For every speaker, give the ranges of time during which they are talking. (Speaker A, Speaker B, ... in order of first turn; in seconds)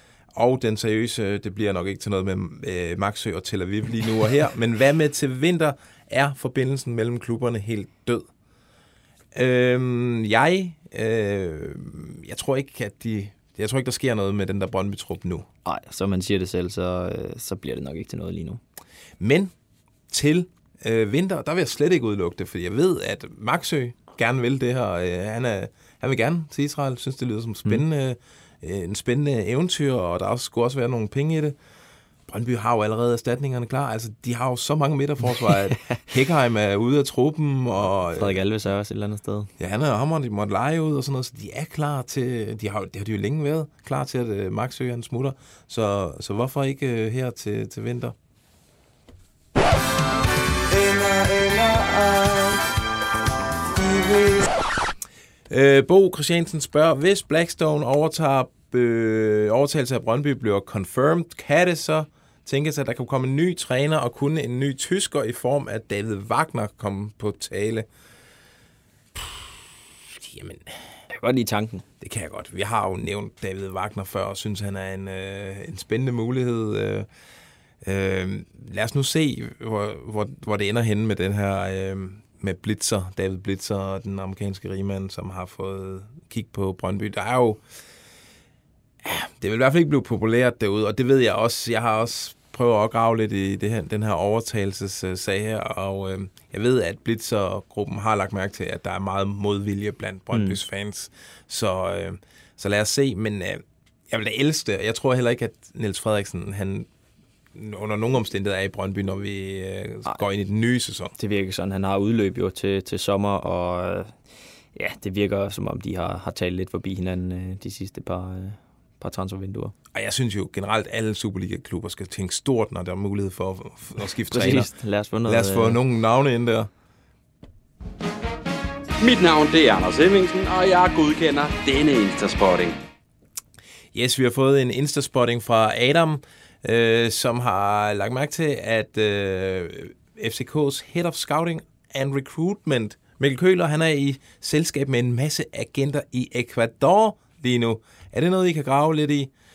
Speaker A: 0.3-8.3, 9.3-15.5, 19.2-19.5, 20.1-31.6, 32.3-38.4, 39.6-48.1, 50.8-52.5, 55.5-67.9, 69.1-70.9, 72.0-77.1, 77.8-87.6, 89.0-106.9, 107.5-111.1, 119.9-124.7, 125.2-126.7, 133.9-149.3
Speaker B: 15.7-18.6, 35.7-36.0, 38.1-39.5, 71.1-71.8, 100.3-100.6, 111.2-114.2, 114.7-119.8, 124.3-125.8
Speaker C: 129.0-132.8